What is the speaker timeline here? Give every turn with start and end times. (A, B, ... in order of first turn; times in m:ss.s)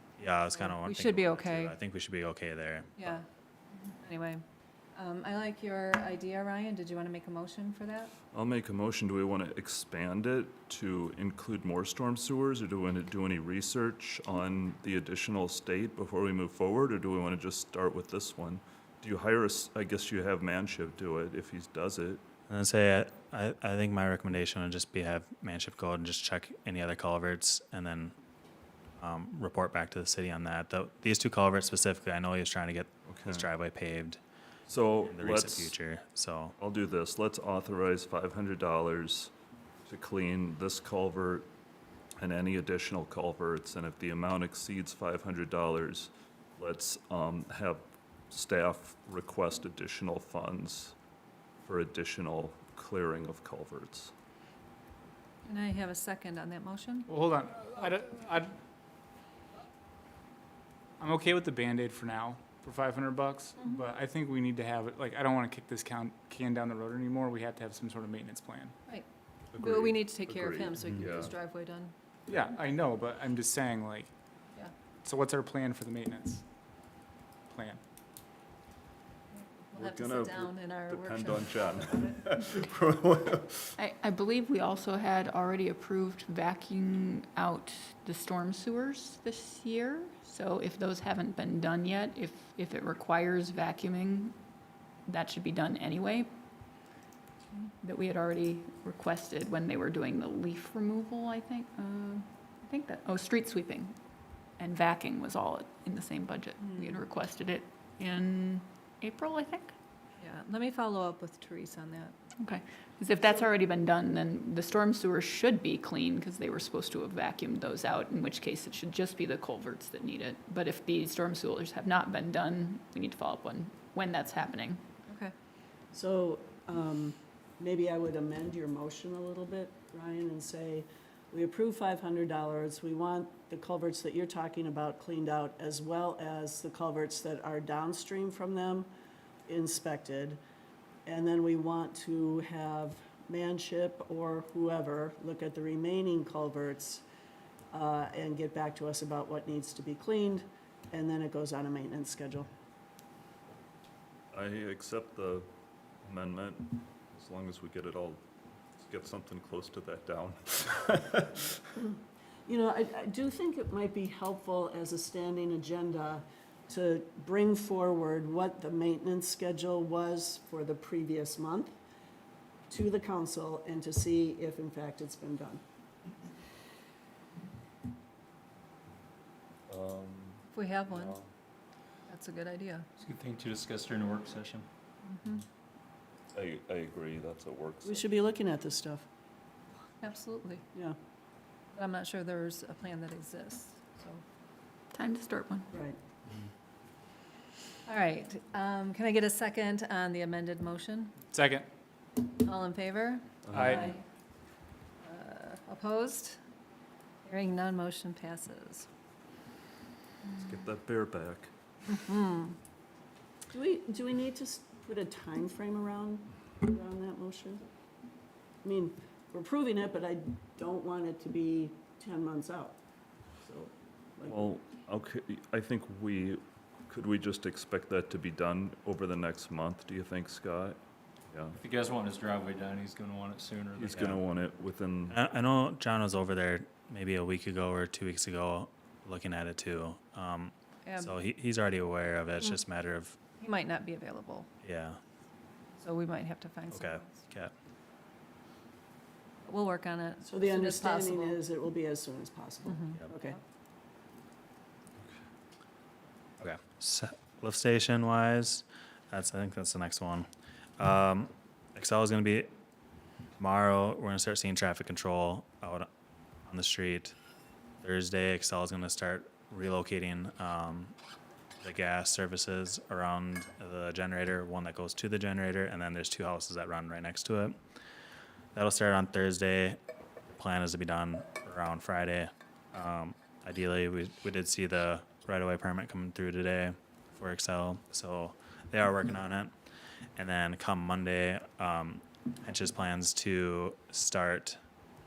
0:00.2-0:03.2 A
0:00.6-0:01.7 B
0:03.0-0:03.2 B
0:04.0-0:04.4 B
0:04.9-0:08.1 B
0:08.3-0:22.3 C
0:22.5-0:28.1 A
0:29.0-0:34.2 A
0:33.1-0:33.4 C
0:34.7-0:35.7 C
0:35.0-0:36.5 A
0:36.6-0:39.3 C
0:39.8-0:41.5 C
0:42.2-0:50.9 C
0:51.6-0:54.1 C
0:55.4-0:57.1 B
0:57.1-0:58.5 D
1:01.0-1:08.7 D
1:09.5-1:11.3 C
1:09.6-1:11.9 B
1:12.3-1:14.1 D
1:15.0-1:16.4 D
1:17.5-1:17.8 D
1:19.4-1:22.2 B
1:19.7-1:23.7 C
1:23.8-1:34.4 E
1:35.1-1:36.3 E
1:37.8-1:44.0 E
1:44.6-1:49.7 E
1:50.2-1:52.1 B
1:52.4-2:04.8 E
2:05.1-2:05.3 B
2:05.9-2:18.9 F
2:19.5-2:20.4 F
2:21.0-2:27.0 F
2:27.7-2:32.5 F
2:34.3-2:35.5 C
2:36.0-2:38.2 C
2:38.8-2:41.7 C
2:42.5-2:51.7 F
2:52.7-2:55.6 F
2:59.7-3:01.2 C
3:00.5-3:01.1 B
3:02.1-3:02.8 B
3:03.0-3:04.6 G
3:05.1-3:05.4 B
3:06.3-3:08.1 C
3:07.8-3:09.0 F
3:10.0-3:10.6 B
3:11.7-3:14.2 B
3:14.9-3:15.7 E
3:15.7-3:16.0 F
3:17.8-3:21.2 B
3:21.3-3:21.7 D
3:22.4-3:24.0 B
3:23.4-3:23.7 C
3:23.5-3:23.9 D
3:25.0-3:26.4 B
3:27.2-3:28.9 B
3:30.4-3:31.5 C
3:31.9-3:32.5 B
3:33.5-3:37.6 F
3:38.6-3:42.8 F
3:43.4-3:44.5 F
3:44.2-3:50.8 C
3:51.3-3:51.6 C
3:51.6-3:54.2 G
3:53.8-3:55.2 C
3:55.1-4:03.2 A
4:03.4-4:04.5 B
4:04.6-4:05.0 A
4:05.8-4:07.2 B
4:06.7-4:07.5 A
4:09.4-4:11.4 B
4:10.2-4:13.4 F
4:12.6-4:13.3 B
4:16.4-4:20.3 A
4:20.8-4:22.5 A
4:23.4-4:25.9 A
4:26.5-4:27.2 A
4:27.8-4:30.9 A
4:31.6-4:37.6 A
4:38.5-4:39.8 A
4:40.4-4:49.5 A
4:50.2-4:54.6 A